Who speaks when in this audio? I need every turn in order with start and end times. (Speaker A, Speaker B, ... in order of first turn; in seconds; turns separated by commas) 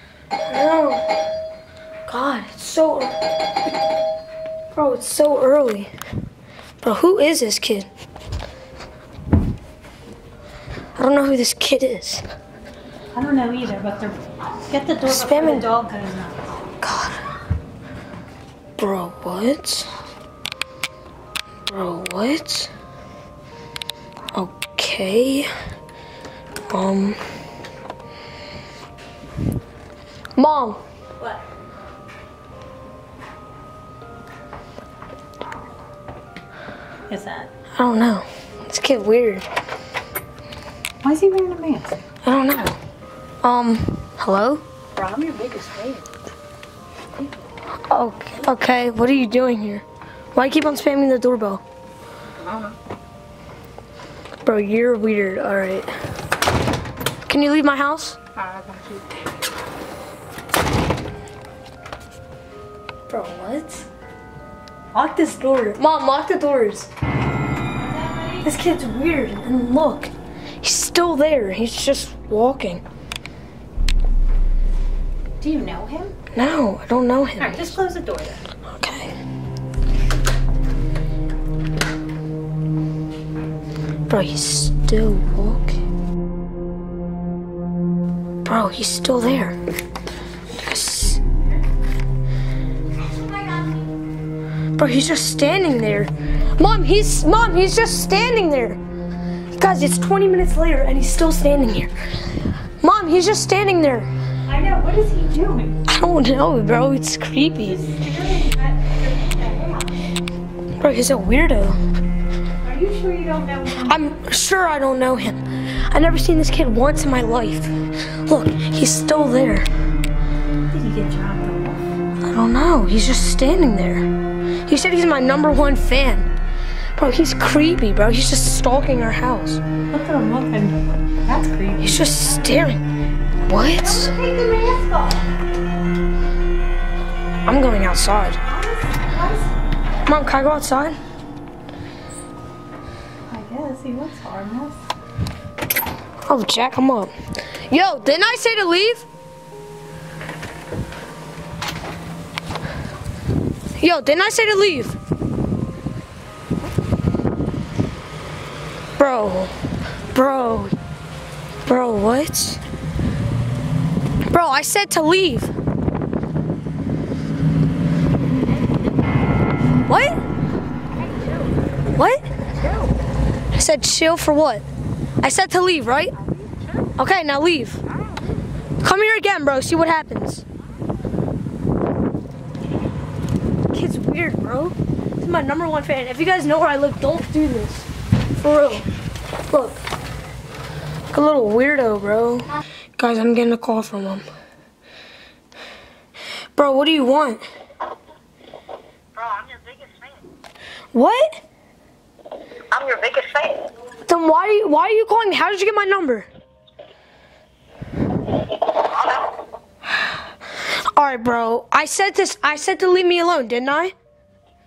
Speaker A: 0.5-1.0, Speaker A: 2.1-3.1, Speaker A: 4.7-5.9, Speaker A: 6.8-7.9, Speaker A: 11.0-12.2, Speaker B: 13.1-16.4, Speaker A: 15.1-15.7, Speaker A: 16.8-17.2, Speaker A: 18.8-19.9, Speaker A: 21.7-22.7, Speaker A: 24.3-25.5, Speaker A: 26.7-27.2, Speaker A: 30.4-30.8, Speaker B: 37.1-37.5, Speaker A: 37.8-39.5, Speaker B: 41.0-42.0, Speaker A: 42.2-42.8, Speaker A: 43.4-44.6, Speaker B: 45.0-46.1, Speaker A: 47.9-51.6, Speaker B: 52.4-52.8, Speaker A: 54.5-55.9, Speaker A: 57.2-58.2, Speaker B: 58.4-59.1, Speaker A: 63.1-63.9, Speaker B: 64.9-65.8, Speaker A: 65.7-66.9, Speaker B: 67.8-68.4, Speaker A: 68.4-72.8, Speaker B: 75.4-76.1, Speaker A: 76.3-77.7, Speaker B: 77.4-78.4, Speaker A: 78.7-79.2, Speaker A: 84.1-85.8, Speaker A: 88.5-89.6, Speaker A: 90.5-91.2, Speaker B: 93.3-93.8, Speaker A: 94.8-98.8, Speaker A: 99.6-101.9, Speaker A: 102.8-104.1, Speaker B: 104.5-105.8, Speaker A: 105.9-107.8, Speaker B: 107.6-110.1, Speaker A: 110.8-111.8, Speaker B: 112.6-114.0, Speaker A: 113.8-119.7, Speaker B: 120.7-121.8, Speaker A: 122.2-124.1, Speaker A: 124.7-126.3, Speaker A: 127.0-129.6, Speaker B: 129.9-132.3, Speaker A: 131.8-132.8, Speaker A: 133.5-134.1, Speaker B: 133.8-135.3, Speaker A: 137.4-138.4, Speaker B: 138.4-139.5, Speaker A: 140.1-141.0, Speaker B: 143.3-144.8, Speaker A: 146.2-147.1, Speaker A: 147.7-149.1, Speaker A: 153.8-155.0, Speaker A: 159.0-159.5, Speaker A: 160.1-160.8, Speaker A: 161.7-162.6, Speaker A: 164.3-165.5, Speaker A: 169.9-170.2, Speaker B: 170.9-171.6, Speaker A: 171.9-172.3, Speaker B: 172.6-172.9, Speaker A: 173.5-174.7, Speaker A: 175.2-176.2, Speaker B: 176.2-176.9, Speaker A: 177.0-177.8, Speaker B: 177.9-178.4, Speaker A: 178.8-180.4, Speaker A: 183.7-188.9, Speaker A: 189.5-189.8, Speaker A: 191.1-194.3, Speaker A: 196.6-197.4, Speaker C: 199.2-200.2, Speaker A: 200.9-201.4, Speaker C: 202.7-203.7, Speaker A: 204.1-206.3, Speaker C: 208.7-209.3, Speaker A: 210.9-213.9